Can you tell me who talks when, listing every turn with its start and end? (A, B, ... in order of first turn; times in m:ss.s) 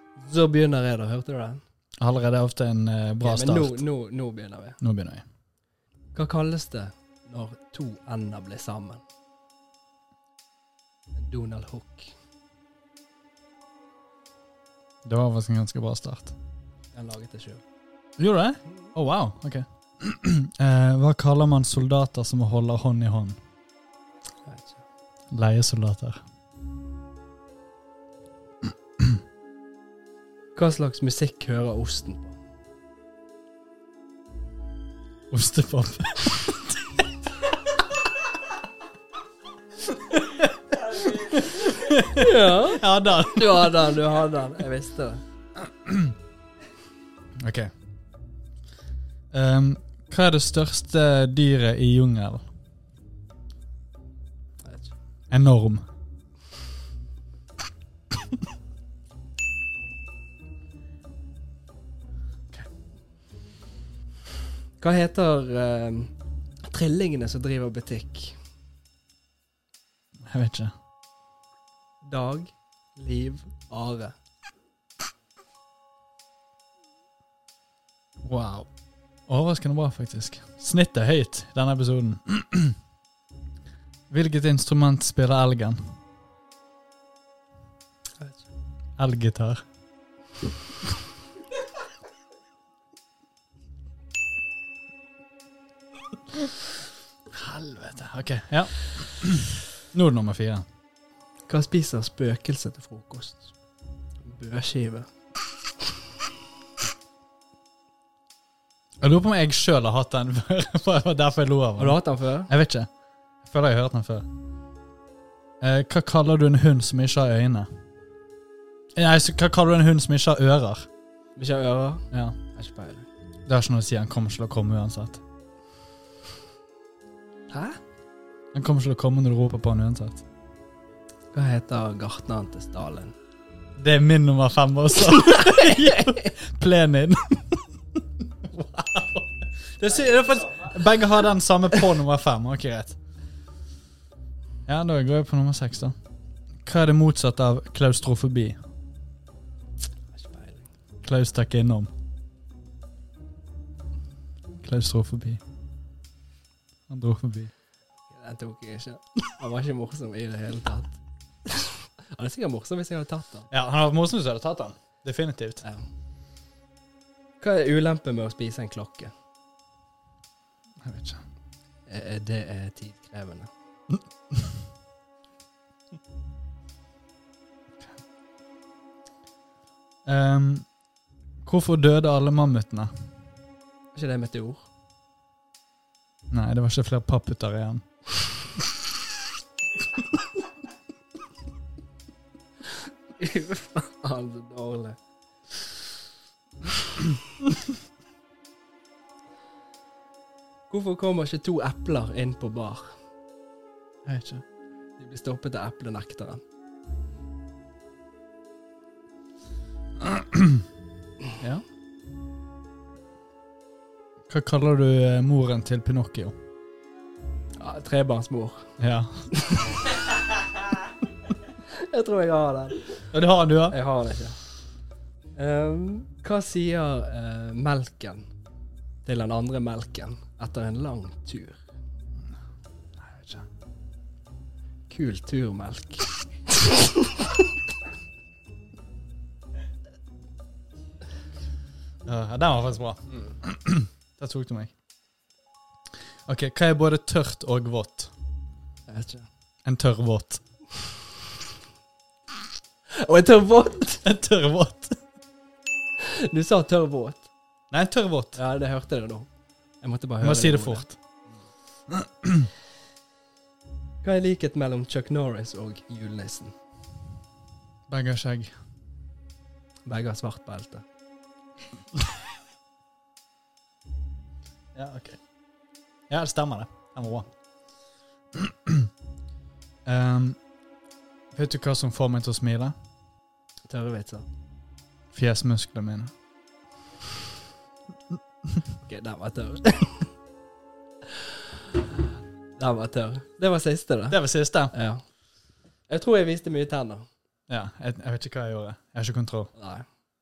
0:00.2-0:01.6 A
0:02.0-0:03.8 B
0:03.2-0:04.8 A
0:04.8-0:05.2 B
0:06.1-0:09.0 A
0:11.1-0:12.1 A
0:15.0-0:16.3 B
0:16.9-0:17.6 A
0:18.2-0:23.4 B
0:24.4-0:24.8 A
0:25.3-0:26.2 B
0:30.6-0:32.4 A
0:35.3-0:36.8 B
0:40.1-0:44.0 B
0:42.1-0:45.2 A
0:45.8-0:46.1 B
0:47.4-0:47.7 B
0:49.3-0:52.4 B
0:54.6-0:54.9 A
0:55.3-0:55.8 B
1:04.8-1:06.1 A
1:06.6-1:08.4 A
1:10.2-1:10.7 B
1:12.0-1:14.1 A
1:18.3-1:18.6 B
1:19.3-1:22.8 B
1:24.1-1:25.9 B
1:28.2-1:28.5 A
1:29.0-1:29.6 B
1:37.3-1:40.6 B
1:41.5-1:43.5 A
1:44.2-1:45.1 A
1:49.0-1:52.9 B
1:51.8-1:52.5 A
1:53.4-1:54.2 B
1:55.6-1:57.7 B
1:59.0-2:00.9 B
2:01.4-2:03.1 A
2:03.5-2:05.2 B
2:07.5-2:07.8 A
2:08.5-2:10.2 B
2:11.3-2:13.1 A
2:13.8-2:23.0 B
2:15.0-2:16.3 A
2:24.7-2:25.9 B
2:26.6-2:28.6 B
2:30.1-2:30.7 A
2:31.0-2:31.9 B
2:34.6-2:35.4 B
2:36.9-2:37.5 B
2:38.1-2:43.5 A
2:43.5-2:45.6 B
2:47.4-2:49.1 A
2:50.8-2:51.2 B
2:51.9-2:53.5 A
3:00.0-3:00.7 B
3:01.4-3:02.9 B
3:03.9-3:04.7 A
3:06.3-3:07.8 B
3:13.2-3:15.0 A
3:20.7-3:23.0 A
3:24.0-3:24.4 B
3:25.0-3:26.4 A
3:30.0-3:30.6 B
3:34.3-3:36.3 B
3:37.6-3:38.7 A
3:38.8-3:39.3 B
3:39.3-3:39.8 A
3:41.7-3:43.0 A
3:43.1-3:43.8 B
3:43.7-3:44.4 A
3:45.4-3:48.2 A
3:49.0-3:51.6 A
3:53.0-3:53.4 B
3:54.9-3:57.4 A
4:02.0-4:04.7 B
4:06.3-4:08.1 B
4:08.9-4:09.3 A
4:09.6-4:10.4 B
4:12.9-4:14.0 A
4:14.0-4:14.9 B
4:16.0-4:17.3 A
4:17.7-4:18.4 B
4:18.4-4:19.3 A
4:19.8-4:20.9 A
4:20.2-4:21.0 B
4:21.9-4:22.5 B
4:24.0-4:26.5 A
4:27.9-4:28.5 B
4:29.8-4:30.8 A
4:34.7-4:35.2 B
4:36.1-4:37.3 B
4:38.4-4:38.9 B
4:39.8-4:40.4 B
4:41.3-4:42.7 B
4:43.7-4:44.3 A
4:45.1-4:46.1 B
4:48.8-4:50.1 A
4:51.1-4:51.5 A
4:52.6-4:54.2 A
4:54.1-4:54.7 B
4:54.7-4:55.0 A
4:55.9-4:57.0 A
4:57.5-4:59.5 B
4:59.6-4:59.8 A